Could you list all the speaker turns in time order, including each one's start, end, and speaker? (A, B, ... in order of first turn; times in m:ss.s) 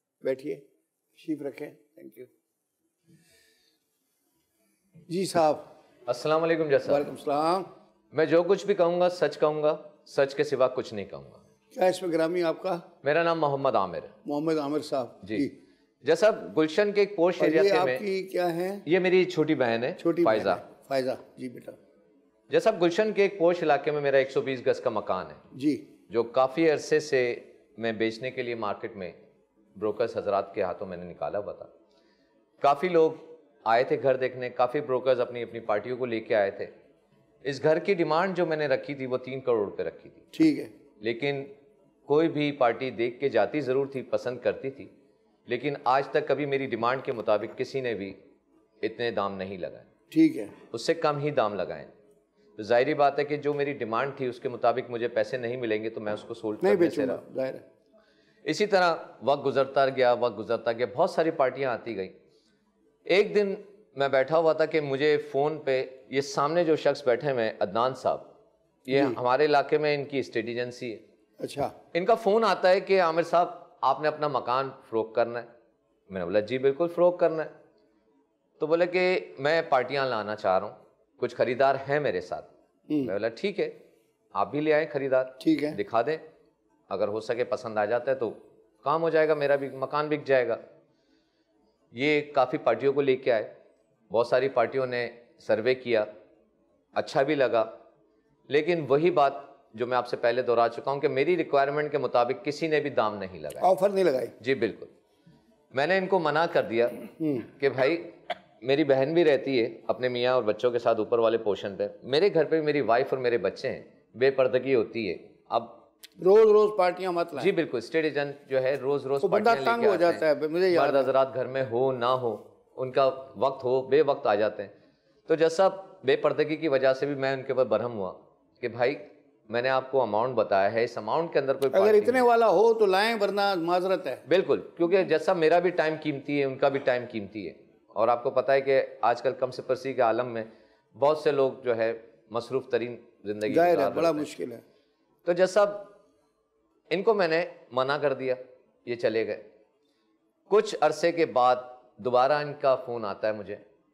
0:00.2-0:00.6 A
0:01.2-0:02.3 A
0:05.1-0:05.7 A
0:06.1-0:07.0 B
0:06.8-0:07.7 A
0:08.1-0:11.4 B
0:11.7-0:12.8 A
0:13.0-0:14.1 B
0:14.2-0:15.5 A
0:15.2-0:15.5 B
0:16.0-0:18.0 B
0:17.4-0:18.8 A
0:18.8-0:20.6 B
0:20.0-0:21.8 A
0:22.5-0:25.4 B
0:25.5-0:25.8 A
0:26.1-0:29.1 B
0:29.8-0:31.7 B
0:32.6-0:36.7 B
0:37.4-0:40.2 B
0:40.3-0:40.7 A
0:41.0-0:41.5 B
0:42.1-0:44.9 B
0:45.5-0:48.2 B
0:48.8-0:49.9 B
0:50.1-0:50.5 A
0:50.7-0:51.9 B
0:52.6-0:57.2 B
0:56.6-0:57.6 A
0:58.4-1:02.1 B
1:03.1-1:08.3 B
1:08.8-1:11.0 B
1:08.9-1:09.2 A
1:11.4-1:11.7 A
1:11.9-1:15.5 B
1:16.1-1:17.5 B
1:18.6-1:22.5 B
1:23.0-1:23.7 B
1:24.3-1:26.2 B
1:25.4-1:25.8 A
1:26.9-1:30.6 B
1:31.9-1:33.5 B
1:34.1-1:36.1 B
1:37.0-1:37.7 B
1:38.5-1:43.7 B
1:43.6-1:44.3 A
1:44.4-1:44.9 B
1:45.7-1:55.8 B
1:47.2-1:47.5 A
1:56.2-1:57.5 A
1:57.4-2:04.7 B
1:59.2-2:01.1 A
2:05.3-2:12.2 B
2:11.7-2:14.2 A
2:14.3-2:24.3 B
2:23.5-2:24.6 A
2:25.2-2:25.9 B
2:26.9-2:29.4 B
2:30.5-2:33.6 B